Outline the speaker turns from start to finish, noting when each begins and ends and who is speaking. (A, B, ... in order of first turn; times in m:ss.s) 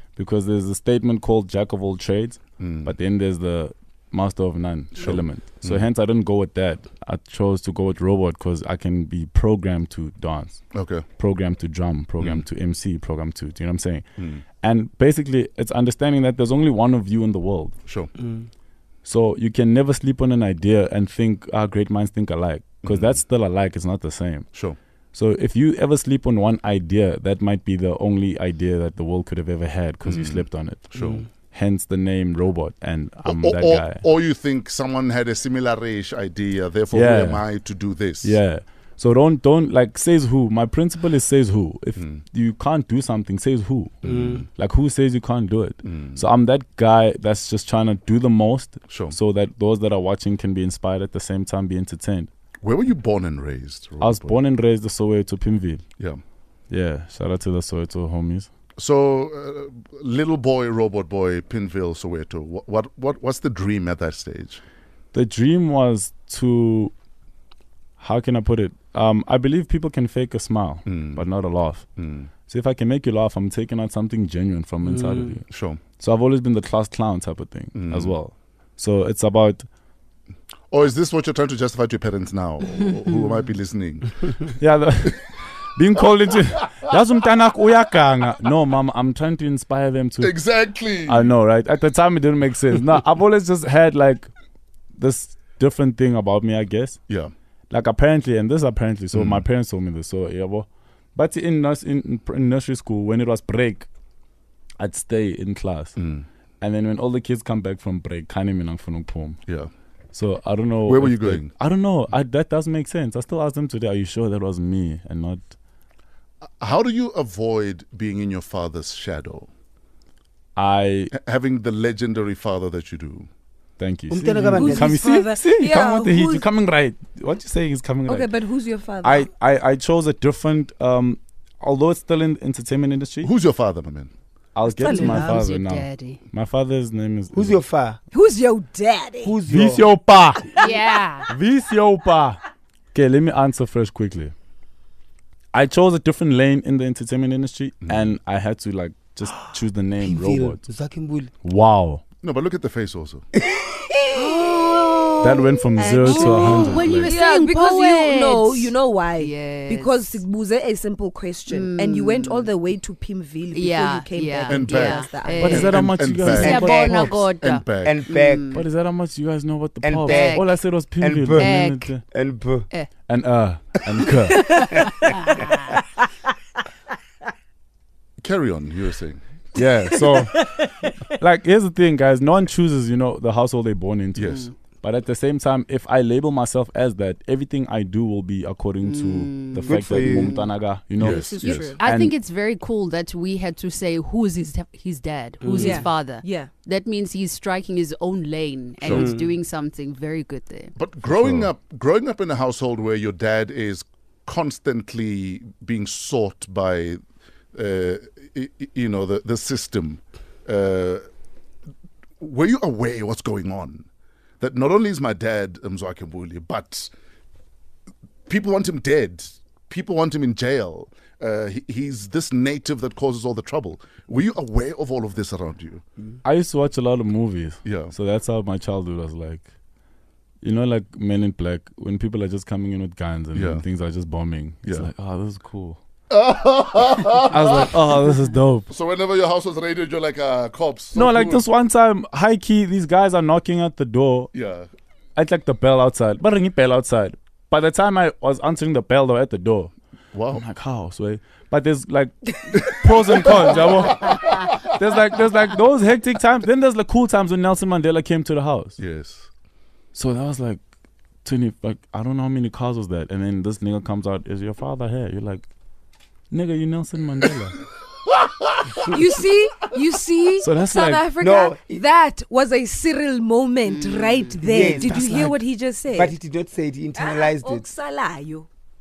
0:00.2-0:10.6 A
0:02.6-0:02.9 B
0:05.0-0:05.9 B
0:10.7-0:11.0 B
0:11.2-0:14.0 A
0:12.2-0:12.4 B
0:14.2-0:14.4 B
0:14.6-0:17.8 A
0:17.8-0:18.1 B
0:18.2-0:18.5 C
0:19.0-0:24.5 A
0:22.8-0:23.2 B
0:24.5-0:24.8 B
0:25.1-0:34.0 A
0:30.0-0:31.2 B
0:33.2-0:38.4 B
0:36.9-0:37.5 A
0:38.2-0:43.9 A
0:42.0-0:42.2 B
0:44.0-0:44.5 B
0:44.0-0:44.4 C
0:44.5-0:52.3 A
0:45.8-0:46.2 B
0:48.9-0:49.2 B
0:52.6-0:54.4 B
0:54.0-0:55.8 A
0:56.7-0:58.5 A
0:58.8-1:04.6 B
1:05.1-1:06.9 A
1:08.0-1:11.8 A
1:10.8-1:11.2 B
1:12.0-1:12.3 B
1:12.5-1:15.4 A
1:15.5-1:15.8 B
1:16.0-1:19.7 A
1:17.7-1:18.2 B
1:20.7-1:24.5 B
1:24.6-1:30.4 A
1:30.2-1:31.3 B
1:31.0-1:34.3 A
1:35.0-1:37.0 A
1:37.7-1:43.9 A
1:39.1-1:39.4 B
1:44.8-1:45.9 A
1:46.0-1:46.2 B
1:46.6-1:49.4 A
1:50.1-1:55.5 A
1:50.8-1:51.5 B
1:56.6-1:59.5 B
2:00.6-2:01.1 A
2:01.1-2:03.3 B
2:03.8-2:08.3 A
2:04.1-2:04.9 C
2:04.5-2:06.4 D
2:08.0-2:09.3 D
2:09.0-2:13.3 A
2:13.2-2:14.1 B
2:14.5-2:17.6 A
2:14.7-2:15.5 D
2:14.9-2:16.2 E
2:17.3-2:18.0 C
2:18.1-2:19.4 D
2:19.2-2:19.9 C
2:19.5-2:20.5 A
2:20.5-2:21.3 E
2:21.3-2:22.4 A
2:22.9-2:24.3 A
2:25.5-2:30.6 A
2:27.8-2:28.1 B
2:30.0-2:31.3 C
2:31.4-2:32.0 A
2:32.2-2:33.2 B
2:33.4-2:34.3 C
2:34.2-2:40.2 E
2:34.3-2:34.9 D
2:35.2-2:37.1 A
2:35.8-2:45.6 D
2:41.5-2:42.5 E
2:43.5-2:48.6 E
2:44.5-2:48.0 B
2:45.4-2:47.2 A
2:46.4-2:46.7 C
2:47.8-2:48.5 C
2:48.5-2:52.0 A
2:49.8-2:52.7 C
2:50.0-2:50.5 E
2:51.3-2:51.9 E
2:53.1-2:54.7 A
2:54.3-2:55.2 D
2:55.0-2:55.7 E
2:58.2-2:59.2 B
2:59.5-3:00.4 A
3:00.1-3:00.9 D
3:01.1-3:12.1 A
3:04.1-3:04.5 B
3:04.2-3:04.5 E
3:08.8-3:10.5 E
3:09.6-3:10.4 C
3:11.0-3:11.8 B
3:11.0-3:11.8 D
3:11.8-3:20.7 E
3:15.4-3:15.9 C
3:15.6-3:16.5 D
3:18.8-3:19.1 B
3:18.9-3:19.3 C
3:20.7-3:27.0 B
3:21.1-3:21.5 A
3:27.5-3:31.0 B
3:32.2-3:33.9 B
3:34.4-3:36.9 B
3:38.3-3:45.8 B
3:46.2-3:49.5 A
3:47.6-3:47.9 B
3:50.4-3:55.8 A
3:53.3-3:53.6 B
3:54.6-3:54.9 B
3:56.1-3:57.7 B
3:57.2-3:58.7 A
3:58.7-4:01.4 B
4:00.9-4:04.3 A
4:04.3-4:04.7 B
4:05.2-4:09.7 A
4:10.1-4:10.4 B
4:10.3-4:18.8 A
4:12.8-4:14.2 B
4:18.8-4:19.3 B
4:19.9-4:20.6 A
4:21.2-4:25.4 A
4:26.3-4:27.6 A
4:28.8-4:36.2 D
4:30.4-4:31.1 A
4:31.2-4:31.9 C
4:33.8-4:37.7 C
4:34.8-4:35.2 A
4:36.9-4:38.5 D